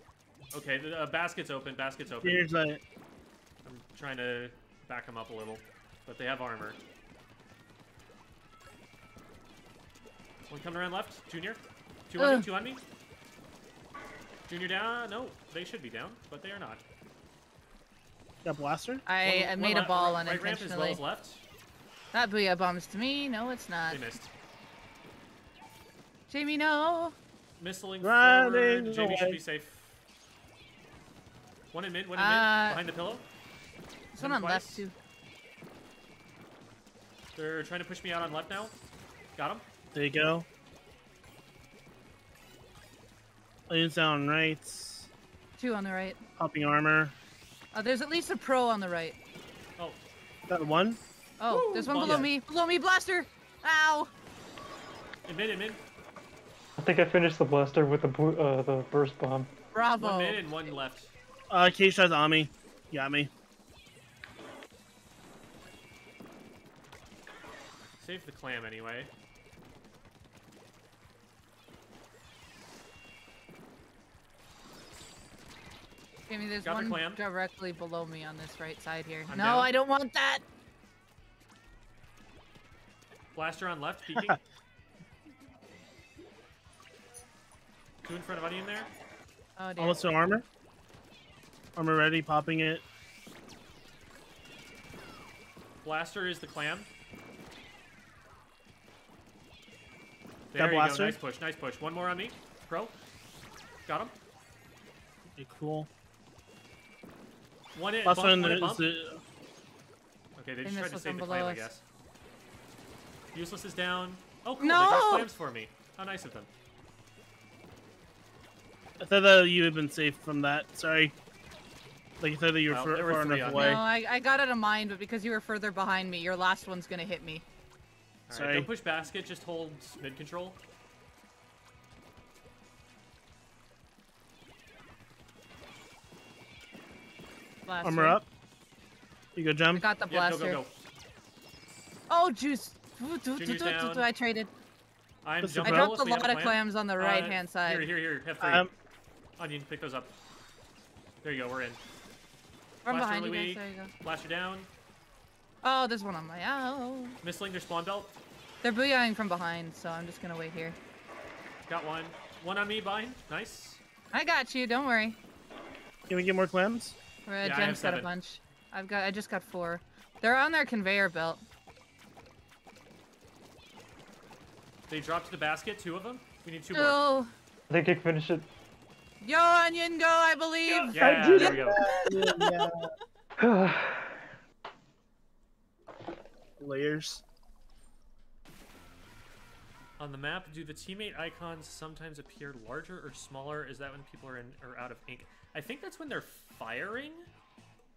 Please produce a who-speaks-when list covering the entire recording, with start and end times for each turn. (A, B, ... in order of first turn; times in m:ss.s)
0:00.5-0:02.4 A
0:02.2-0:02.8 B
0:03.6-0:06.8 A
0:10.5-0:12.8 A
0:12.2-0:12.4 C
0:14.5-0:16.8 A
0:18.4-0:19.1 B
0:19.1-0:21.0 C
0:19.3-0:21.4 A
0:22.1-0:24.1 C
0:23.9-0:24.3 A
0:26.3-0:27.1 C
0:27.6-0:30.0 A
0:28.0-0:29.4 B
0:31.7-0:33.3 A
0:32.2-0:32.8 C
0:34.1-0:34.8 A
0:34.2-0:35.0 C
0:37.4-0:38.7 A
0:39.4-0:39.6 A
0:39.9-0:40.4 B
0:43.7-0:45.1 B
0:45.6-0:46.2 C
0:46.4-0:47.1 B
0:47.7-0:49.2 C
0:50.5-0:51.0 B
0:51.4-0:54.1 C
0:51.5-0:52.3 A
0:55.3-0:55.8 A
0:56.8-0:59.5 D
0:59.7-1:00.4 C
1:00.0-1:01.1 A
1:01.5-1:03.3 B
1:08.0-1:09.1 A
1:16.3-1:20.4 C
1:16.6-1:17.2 A
1:19.3-1:19.7 A
1:23.3-1:24.4 A
1:28.0-1:28.9 A
1:29.6-1:30.1 C
1:29.8-1:30.4 B
1:31.8-1:32.8 B
1:35.8-1:36.9 A
1:40.5-1:42.9 A
1:40.6-1:41.2 B
1:43.9-1:44.1 A
1:45.4-1:45.9 B
1:47.7-1:48.9 A
1:48.1-1:49.2 B
1:50.4-1:51.8 A
1:50.6-1:51.7 C
1:53.3-1:56.5 A
1:54.6-1:55.3 C
1:59.0-2:01.1 B
2:02.2-2:03.8 B
2:02.7-2:03.8 A
2:03.5-2:07.4 C
2:08.3-2:10.6 A
2:08.3-2:08.7 B
2:17.7-2:18.2 C
2:17.8-2:18.3 B
2:19.4-2:19.9 B
2:19.8-2:20.6 C
2:20.1-2:20.7 A
2:22.1-2:24.5 C
2:23.4-2:24.0 A
2:25.2-2:28.7 A
2:25.4-2:25.9 B
2:25.6-2:27.8 C
2:28.4-2:28.7 B
2:29.4-2:30.1 A
2:31.2-2:31.8 A
2:32.8-2:33.9 C
2:32.9-2:34.7 A
2:35.6-2:37.2 C
2:37.2-2:38.2 A
2:38.6-2:40.8 C
2:41.7-2:43.8 A
2:44.1-2:45.2 C
2:46.1-2:47.0 B
2:47.3-2:51.4 C
2:47.4-2:48.1 A
2:54.9-2:57.0 A
2:56.7-2:57.3 C
2:57.7-2:58.5 D
2:59.2-3:02.6 C
3:00.7-3:02.9 B
3:00.9-3:01.8 A
3:01.0-3:01.8 D
3:03.4-3:04.2 D
3:06.6-3:07.2 B
3:10.0-3:17.3 A